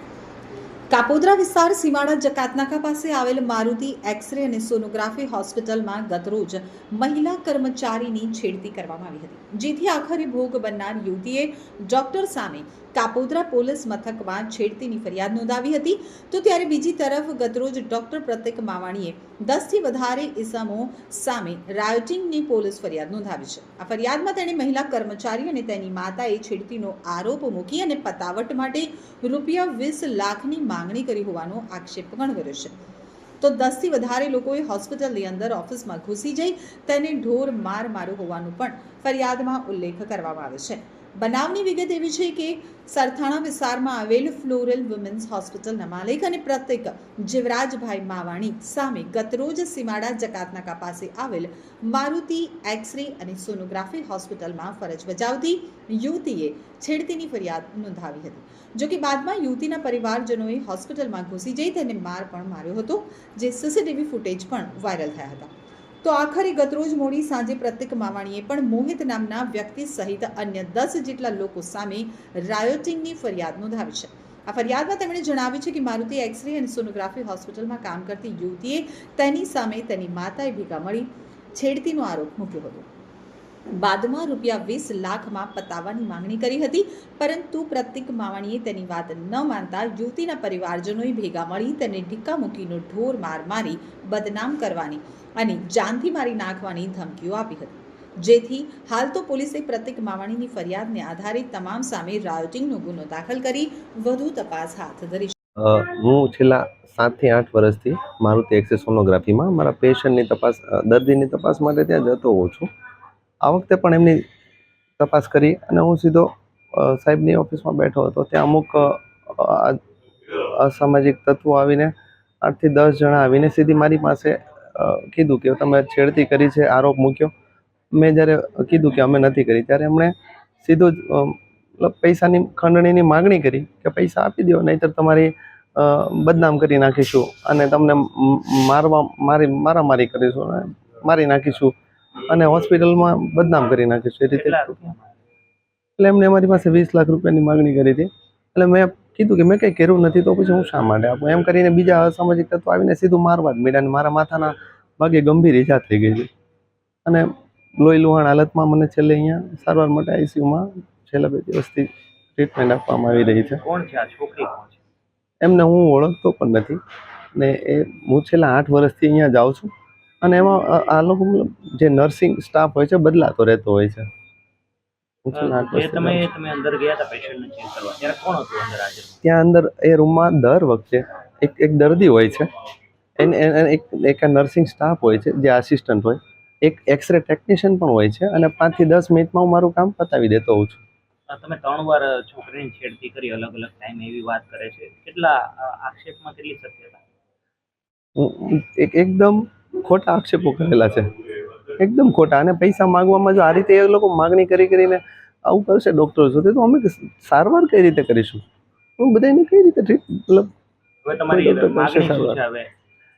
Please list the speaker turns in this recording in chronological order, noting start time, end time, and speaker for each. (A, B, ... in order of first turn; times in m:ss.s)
0:00.9-0:32.7 A
0:33.4-1:05.5 A
1:06.0-1:22.9 A
1:23.8-1:45.4 A
1:45.6-1:52.7 B
1:53.4-1:54.2 B
1:55.0-1:59.8 B
2:00.4-2:07.3 B
2:08.0-2:24.9 B
2:24.3-2:25.2 C
2:26.0-2:36.3 B
2:37.1-2:43.6 B
2:43.4-2:44.8 C
2:45.4-2:46.8 B
2:47.4-2:49.7 B
2:50.2-2:54.1 B
2:55.2-2:56.3 B
2:55.3-2:59.2 C
2:59.2-3:02.5 B
3:03.2-3:10.8 B
3:11.3-3:17.0 C
3:18.2-3:21.1 B
3:21.8-3:28.4 B
3:29.0-3:30.5 B
3:31.0-3:32.7 C
3:31.3-3:32.4 B